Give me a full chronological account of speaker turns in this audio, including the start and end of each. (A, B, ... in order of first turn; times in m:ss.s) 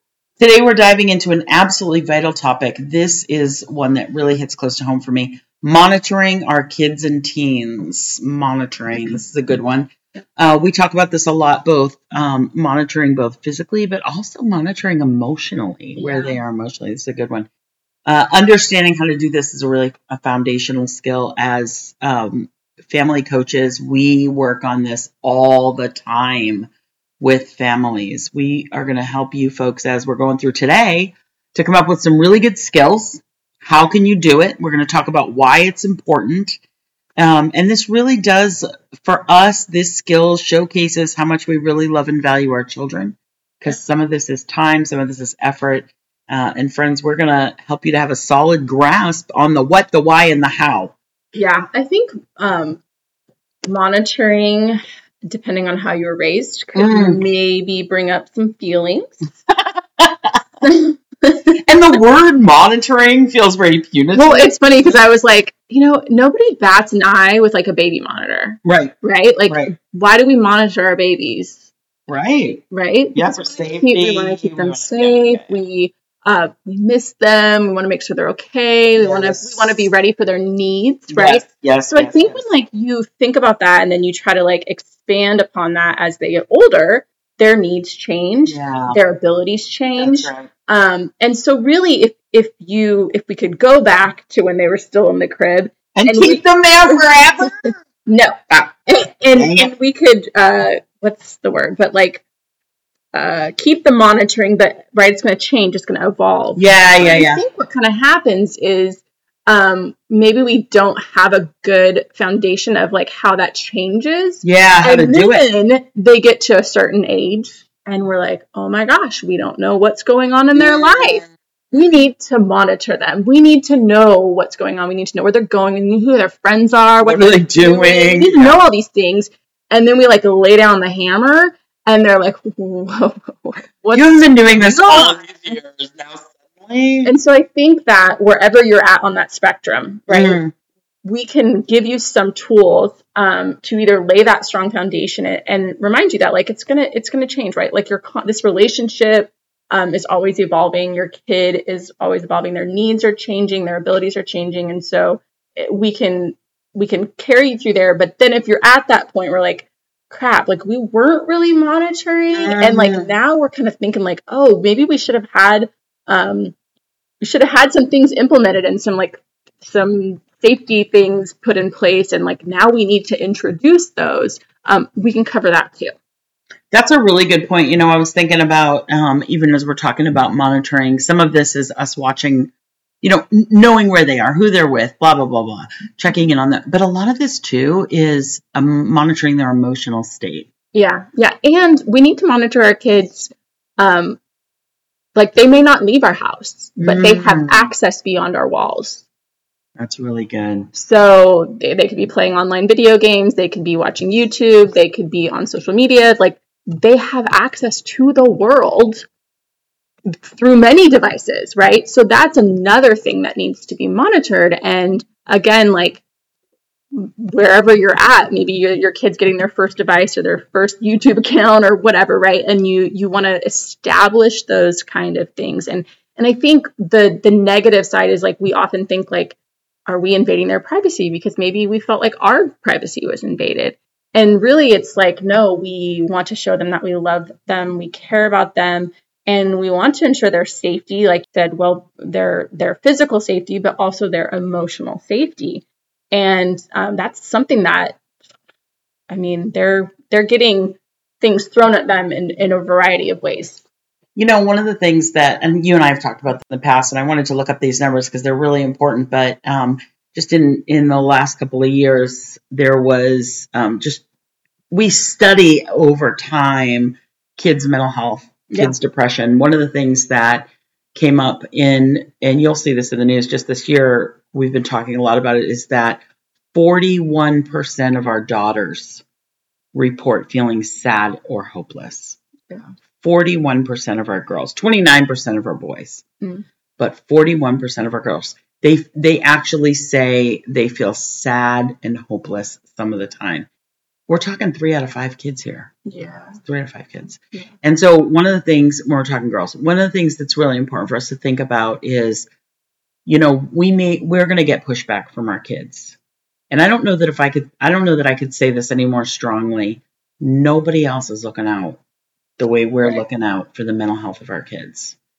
0:00.4-0:17.5 A
0:16.0-0:16.4 B
0:18.0-0:26.7 A
0:27.2-0:36.6 A
0:37.2-0:50.9 A
0:51.3-0:52.8 B
0:53.6-0:59.3 B
0:56.7-0:57.2 A
1:00.0-1:00.4 A
1:00.6-1:01.5 B
1:01.7-1:05.0 A
1:04.1-1:11.7 B
1:08.6-1:08.9 A
1:09.5-1:09.7 A
1:12.1-1:12.6 A
1:12.7-1:42.2 B
1:13.1-1:15.5 A
1:19.0-1:19.9 A
1:21.1-1:22.5 A
1:28.5-1:29.0 A
1:30.0-1:30.5 A
1:36.0-1:37.7 A
1:39.3-1:39.7 A
1:43.1-2:15.5 B
1:46.5-1:47.4 A
1:54.4-1:55.4 A
2:00.5-2:01.3 A
2:07.0-2:08.6 A
2:13.9-2:17.1 A
2:17.0-2:20.4 B
2:20.1-2:20.5 A
2:21.0-2:46.5 B
2:42.3-2:43.1 A
2:47.2-2:55.9 B
2:56.7-3:02.5 A
3:03.0-3:10.5 A
3:10.7-3:14.2 B
3:15.1-3:19.0 B
3:16.8-3:17.7 A
3:19.8-3:20.7 A
3:20.7-3:29.0 B
3:30.2-3:36.0 B
3:36.9-4:08.0 B
4:09.1-4:13.6 B
4:14.1-4:24.0 A
4:24.7-4:36.0 A
4:28.5-4:28.8 B
4:36.5-4:39.0 A
4:39.7-4:42.2 A
4:43.0-4:46.0 A
4:46.8-4:53.5 A
4:54.1-4:55.7 A
4:55.8-4:56.4 B
4:56.4-5:02.3 A
5:03.0-5:06.0 A
5:06.5-5:11.8 A
5:12.4-5:15.0 A